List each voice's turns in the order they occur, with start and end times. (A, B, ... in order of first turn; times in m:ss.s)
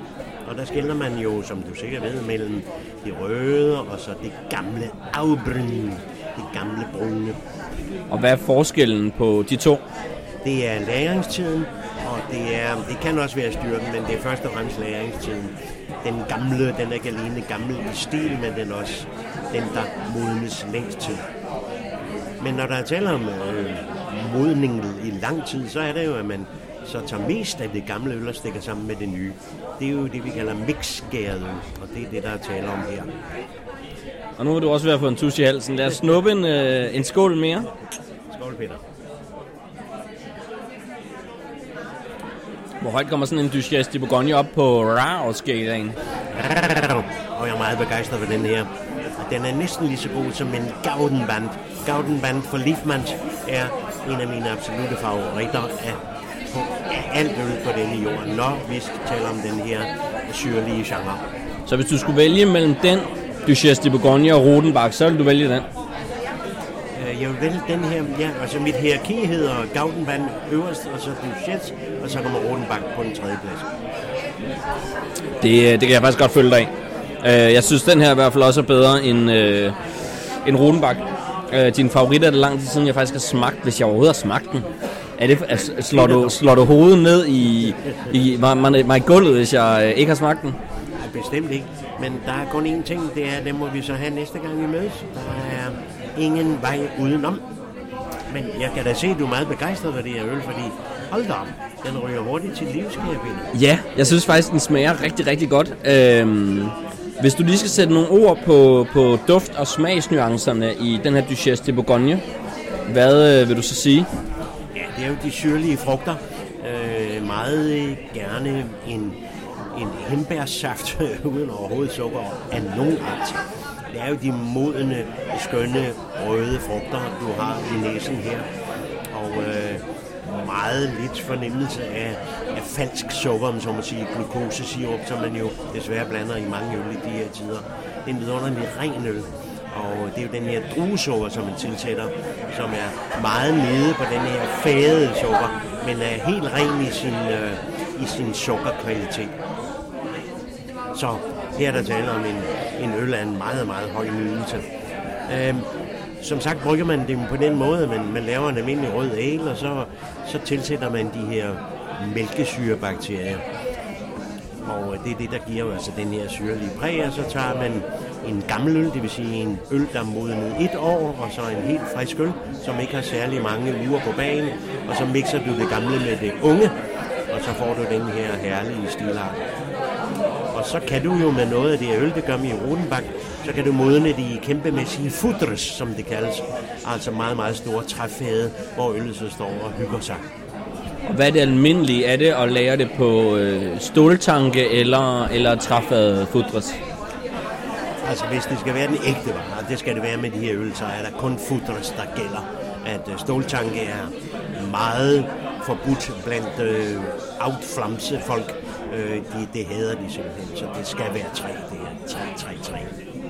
0:00.4-0:07.4 A
0:08.1-0:09.8 B
0:10.4-0:21.2 A
0:22.4-0:33.1 A
0:34.4-0:37.7 B
0:38.3-0:38.8 A
0:42.8-0:46.0 B
0:46.3-1:01.2 A
1:01.7-1:05.7 B
1:07.0-1:13.7 A
1:15.4-1:19.8 B
1:20.4-1:24.7 B
1:25.2-1:30.6 B
1:25.4-1:26.4 A
1:31.0-1:37.4 A
1:38.3-1:44.2 A
1:43.5-1:52.2 B
1:52.9-1:54.1 B
1:54.8-1:59.2 A
1:59.7-2:03.4 A
2:03.9-2:08.5 A
2:09.1-2:29.3 A
2:30.9-2:34.6 A
2:35.3-2:35.6 A
2:36.2-2:43.4 A
2:44.6-2:56.7 A
2:57.3-2:59.4 A
3:00.5-3:10.2 A
3:11.1-3:16.8 B
3:18.0-3:33.0 A